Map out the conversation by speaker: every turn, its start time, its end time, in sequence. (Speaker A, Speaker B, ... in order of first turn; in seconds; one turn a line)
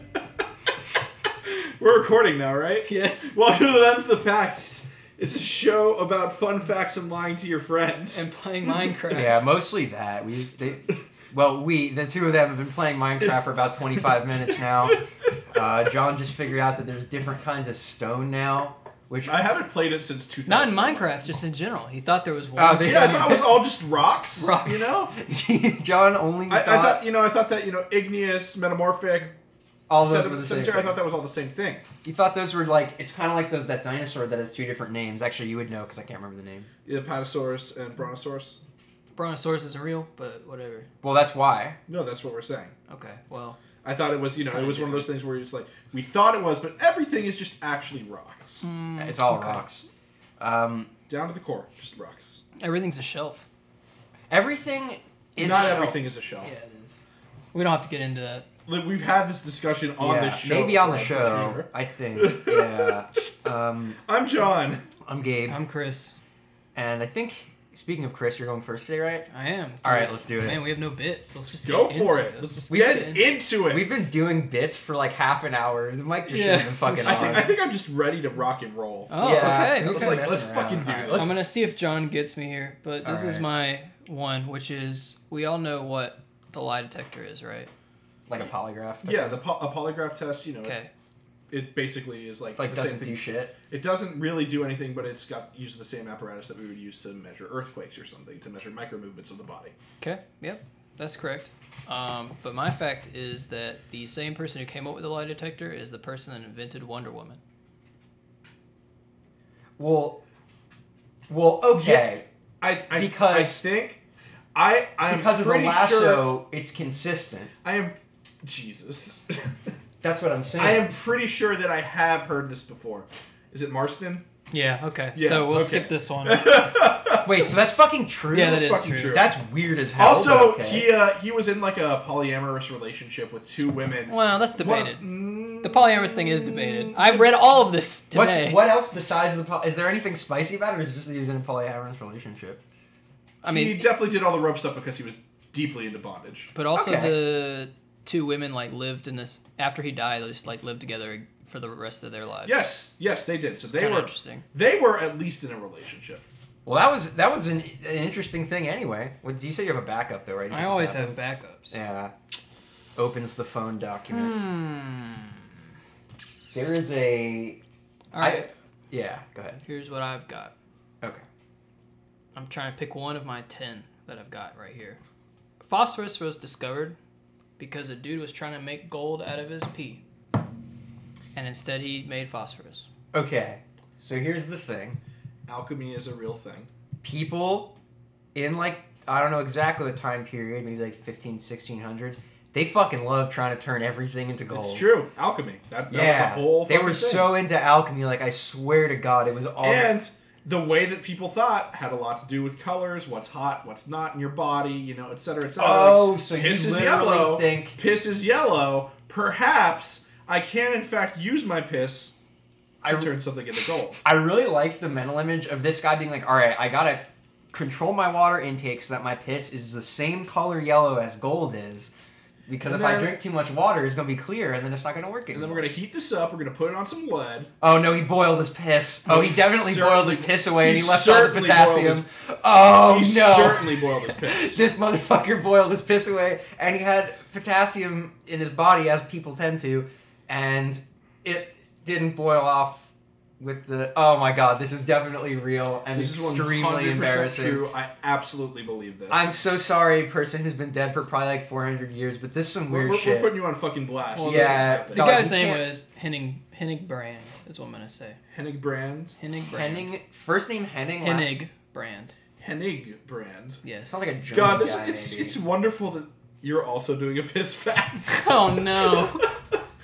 Speaker A: 1.4-8.3
Speaker B: 2.9-3.4
Speaker B: 8.1-9.4
Speaker C: 9.1-19.5
Speaker A: 19.2-21.2
Speaker B: 20.5-23.5
Speaker C: 22.6-23.6
Speaker A: 22.8-25.1
Speaker B: 24.4-24.9
Speaker C: 25.2-27.1
Speaker A: 26.5-29.3
Speaker C: 29.9-31.0
Speaker A: 30.0-31.9
Speaker C: 32.0-36.7
Speaker A: 36.9-38.6
Speaker B: 39.1-40.9
Speaker C: 41.0-41.8
Speaker A: 41.9-42.7
Speaker B: 42.9-43.6
Speaker A: 43.8-48.7
Speaker B: 44.4-45.0
Speaker C: 44.7-45.0
Speaker B: 48.6-49.6
Speaker C: 49.0-49.9
Speaker C: 50.4-50.9
Speaker A: 51.1-52.4
Speaker B: 52.6-53.5
Speaker C: 54.3-56.0
Speaker A: 55.4-56.5
Speaker B: 55.4-57.0
Speaker B: 57.5-58.5
Speaker A: 58.7-63.2
Speaker C: 60.0-64.0
Speaker A: 64.1-64.8
Speaker C: 65.0-65.6
Speaker B: 65.5-66.2
Speaker C: 66.8-69.3
Speaker B: 69.3-73.2
Speaker C: 69.8-70.6
Speaker A: 71.6-73.9
Speaker C: 72.7-77.5
Speaker B: 76.3-77.5
Speaker A: 77.0-81.5
Speaker B: 79.1-80.2
Speaker C: 79.2-81.4
Speaker B: 81.2-87.7
Speaker C: 83.0-83.5
Speaker C: 88.3-89.3
Speaker A: 89.0-90.8
Speaker B: 90.6-90.9
Speaker A: 91.5-99.7
Speaker C: 92.6-93.5
Speaker B: 100.0-107.4
Speaker C: 109.8-110.2
Speaker C: 111.3-112.2
Speaker A: 111.8-114.0
Speaker C: 112.9-113.6
Speaker A: 114.5-116.3
Speaker C: 115.1-117.5
Speaker A: 117.6-119.5
Speaker C: 120.0-121.0
Speaker A: 120.6-124.2
Speaker B: 124.5-126.8
Speaker A: 125.2-127.5
Speaker C: 127.2-130.9
Speaker B: 128.3-129.2
Speaker A: 128.4-129.3
Speaker A: 130.0-137.3
Speaker B: 134.1-138.6
Speaker C: 138.1-142.6
Speaker B: 143.4-143.9
Speaker A: 143.4-146.5
Speaker B: 146.6-152.7
Speaker C: 146.7-147.2
Speaker A: 152.4-156.2
Speaker B: 153.7-154.5
Speaker C: 156.7-161.2
Speaker B: 160.5-161.8
Speaker C: 161.7-162.1
Speaker C: 162.9-164.4
Speaker B: 164.1-165.4
Speaker C: 166.5-167.6
Speaker B: 168.1-168.5
Speaker C: 168.2-169.6
Speaker B: 169.7-170.5
Speaker B: 172.3-175.0
Speaker B: 175.6-177.0
Speaker B: 177.6-180.0
Speaker B: 181.3-182.9
Speaker C: 183.1-185.0
Speaker A: 185.5-186.7
Speaker C: 187.0-187.8
Speaker C: 188.3-194.9
Speaker A: 194.5-197.3
Speaker C: 195.9-199.9
Speaker A: 199.6-212.1
Speaker C: 205.6-207.8
Speaker C: 212.8-213.1
Speaker A: 212.8-214.0
Speaker C: 214.0-221.9
Speaker C: 222.5-225.7
Speaker A: 222.7-223.2
Speaker A: 225.3-227.5
Speaker C: 227.6-242.9
Speaker A: 229.1-232.1
Speaker A: 232.7-234.7
Speaker C: 243.4-247.6
Speaker A: 245.9-249.3
Speaker C: 249.1-253.4
Speaker A: 252.7-255.2
Speaker B: 254.1-258.2
Speaker C: 254.2-255.7
Speaker A: 258.3-259.1
Speaker B: 259.2-259.9
Speaker C: 259.5-261.3
Speaker B: 261.0-262.1
Speaker A: 262.4-263.6
Speaker B: 263.6-264.0
Speaker C: 263.9-265.4
Speaker A: 264.3-269.3
Speaker B: 268.1-269.3